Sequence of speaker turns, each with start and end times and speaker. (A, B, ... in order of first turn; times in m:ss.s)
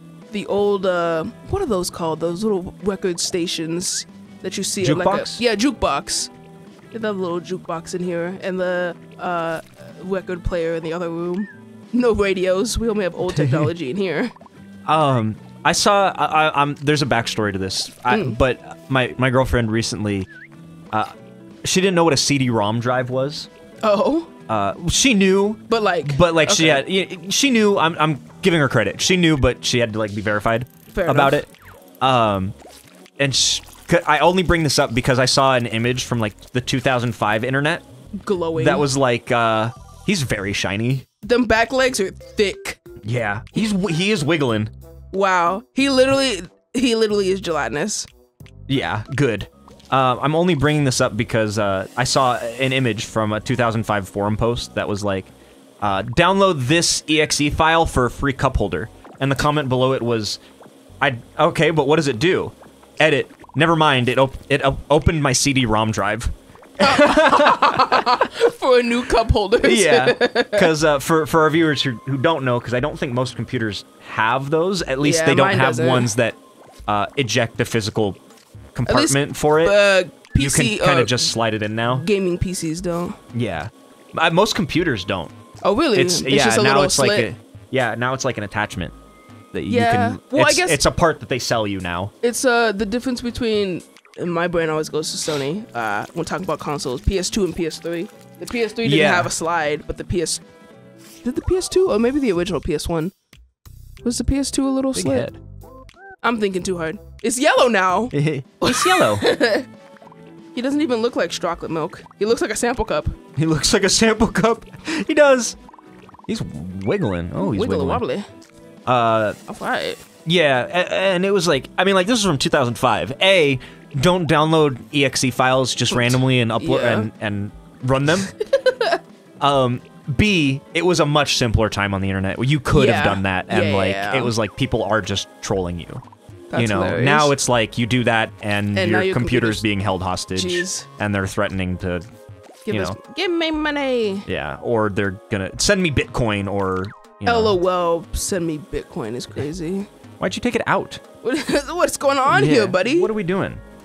0:00.3-0:06.3 A
0:04.8-0:05.4 B
0:06.9-0:14.3 A
0:13.3-0:13.7 B
0:14.8-0:20.3 B
0:18.1-0:18.4 A
0:20.9-0:23.5 B
0:23.8-0:24.3 A
0:24.5-0:31.5 B
0:25.7-0:26.9 A
0:30.9-0:31.4 A
0:32.0-0:32.5 B
0:33.2-0:37.8 B
0:38.2-0:38.9 A
0:38.6-0:41.0 B
0:41.2-0:42.8 A
0:43.0-0:44.7 B
0:45.1-0:48.1 A
0:48.7-1:00.4 B
1:01.0-1:08.2 B
1:06.8-1:10.7 A
1:09.6-1:18.2 B
1:15.0-1:16.1 A
1:18.7-1:19.8 B
1:18.8-1:21.3 A
1:20.3-1:22.0 B
1:21.9-1:23.2 A
1:23.3-1:25.3 B
1:25.6-1:27.3 A
1:25.9-1:28.9 B
1:29.5-1:32.1 B
1:29.7-1:30.8 A
1:32.2-1:40.4 A
1:38.8-1:39.3 B
1:41.2-1:43.1 A
1:44.0-1:45.3 A
1:44.9-1:45.4 B
1:46.2-1:49.7 A
1:48.1-1:49.2 B
1:50.5-1:53.2 A
1:53.4-1:55.6 B
1:56.3-1:58.0 B
1:57.4-1:58.2 A
1:58.8-1:59.4 B
1:59.5-2:00.0 A
2:00.2-2:08.3 B
2:05.9-2:07.1 A
2:08.4-2:09.0 A
2:09.4-2:16.0 B
2:12.7-2:14.3 A
2:16.5-2:17.4 A
2:16.5-2:22.0 B
2:18.7-2:19.6 A
2:20.3-2:20.9 A
2:22.6-2:24.2 A
2:22.7-2:23.0 B
2:24.2-2:27.6 B
2:27.2-2:29.9 A
2:30.2-2:31.0 B
2:31.2-2:33.1 A
2:32.3-2:33.6 B